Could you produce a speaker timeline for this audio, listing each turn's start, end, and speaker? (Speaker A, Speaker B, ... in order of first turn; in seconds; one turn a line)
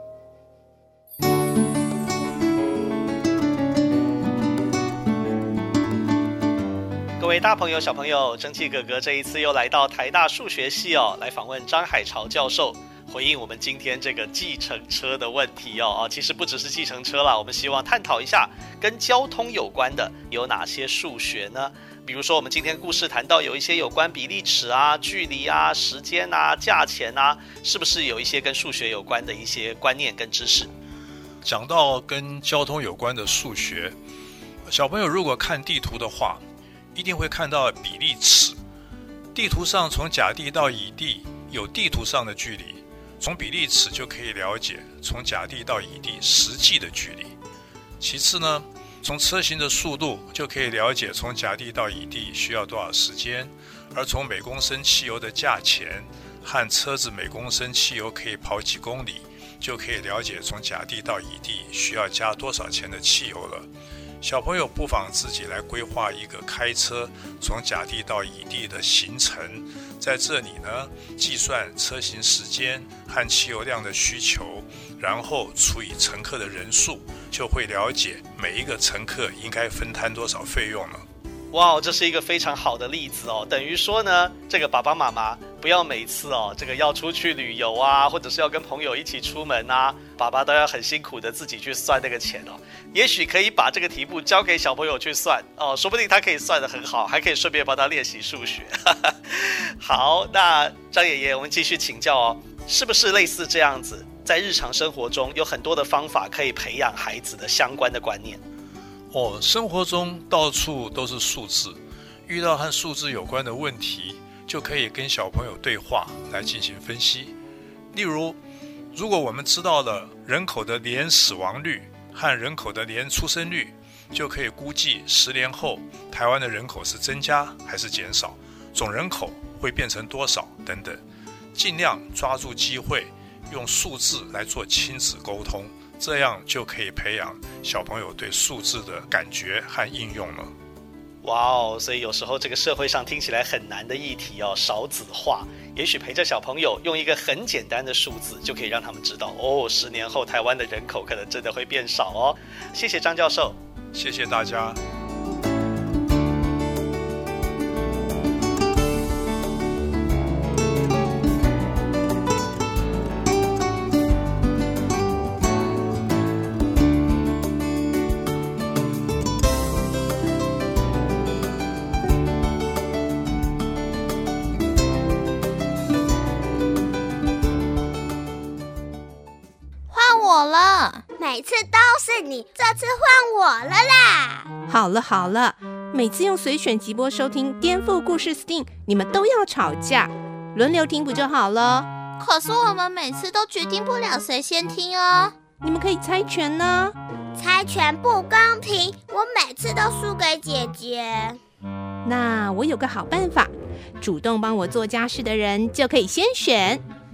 Speaker A: 7.2-30.7
Speaker B: 31.4-34.0
Speaker B: 34.7-36.4
Speaker B: 37.0-38.6
Speaker B: 39.4-47.3
Speaker B: 48.0-63.7
Speaker B: 64.2-81.0
Speaker A: 81.5-108.4
Speaker B: 109.1-117.3
Speaker B: 117.9-118.4
Speaker B: 118.9-131.0
Speaker B: 131.6-140.5
Speaker A: 141.2-153.6
Speaker B: 153.9-154.8
Speaker C: 179.9-181.0
Speaker D: 181.2-184.5
Speaker E: 184.7-191.9
Speaker C: 192.2-195.3
Speaker E: 195.6-197.0
Speaker D: 197.3-201.4
Speaker E: 202.1-206.8